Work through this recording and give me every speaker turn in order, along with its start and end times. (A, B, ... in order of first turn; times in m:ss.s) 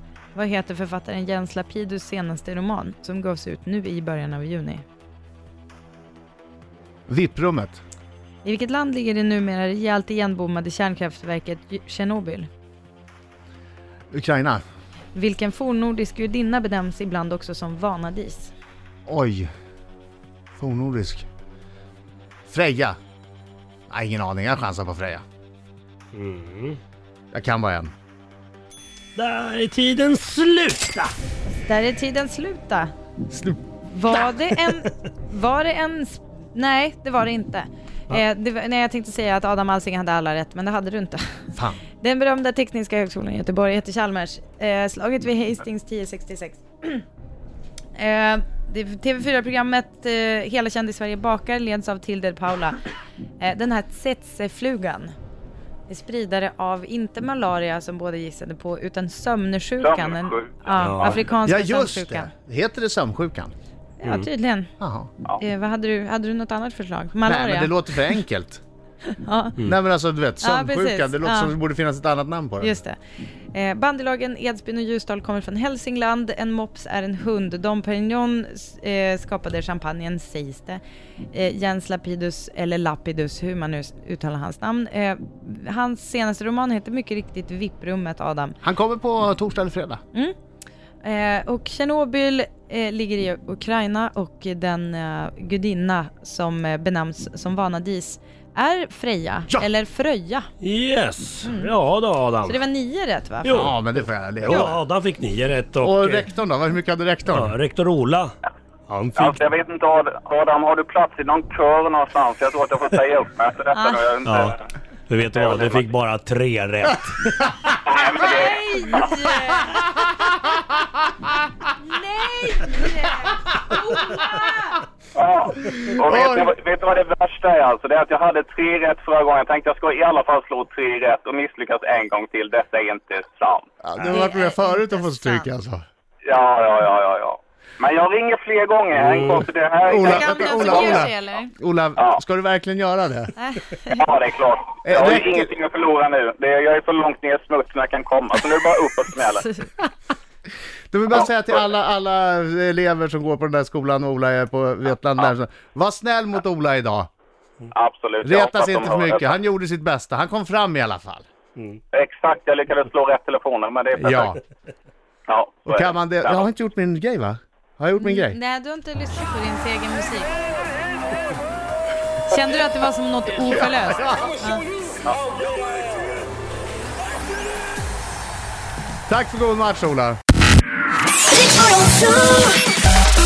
0:00.3-0:04.8 A
0:07.1-0:07.8 B
0:08.4-0:12.5 A
0:14.1-0:14.6 B
0:15.2-0:18.5 A
0:19.1-0:19.5 B
0:20.6-0:21.3 B
0:22.5-0:23.0 B
0:23.9-0:25.2 B
0:26.1-0:26.8 C
0:27.3-0:27.9 B
0:29.2-0:31.1 C
0:31.5-0:32.9 A
0:33.3-0:33.6 B
0:33.8-0:41.5 A
0:41.6-0:41.8 B
0:42.0-0:47.0 A
0:48.0-0:52.8 A
0:53.4-0:55.1 A
0:55.9-1:02.3 A
0:59.8-1:01.1 D
1:00.8-1:01.2 C
1:01.4-1:03.5 B
1:04.0-1:04.7 A
1:04.0-1:04.3 C
1:04.8-1:05.1 B
1:05.4-1:08.1 A
1:07.2-1:08.6 B
1:09.1-1:09.6 A
1:09.6-1:12.8 B
1:10.4-1:11.5 A
1:12.6-1:13.0 A
1:13.5-1:28.6 A
1:28.6-1:30.0 B
1:31.0-1:40.5 A
1:40.6-1:42.6 C
1:41.4-1:41.7 A
1:42.4-1:43.7 A
1:43.4-1:43.8 C
1:43.5-1:44.8 B
1:44.4-1:46.3 C
1:45.8-1:47.6 B
1:47.3-1:48.3 C
1:48.9-1:49.4 C
1:49.2-1:54.6 D
1:53.7-1:54.1 A
1:54.2-1:54.6 C
1:55.1-1:57.4 C
1:55.3-1:55.9 D
1:57.8-1:59.1 D
1:58.2-1:59.8 A
2:00.0-2:00.7 B
2:01.9-2:04.6 A
2:05.2-2:13.7 D
2:06.0-2:06.5 B
2:13.8-2:15.8 B
2:14.1-2:15.5 A
2:16.2-2:21.1 D
2:19.9-2:23.3 B
2:20.0-2:21.5 A
2:23.4-2:24.1 A
2:24.0-2:29.5 D
2:24.8-2:25.5 B
2:30.9-2:37.1 B
2:37.7-2:39.3 D
2:38.2-2:41.2 B
2:41.9-2:44.4 D
2:44.0-2:44.4 B
2:45.3-2:46.5 D
2:45.7-2:48.4 B
2:48.0-2:50.4 A
2:52.3-2:54.7 A
2:53.9-2:54.3 B
2:59.1-3:00.2 B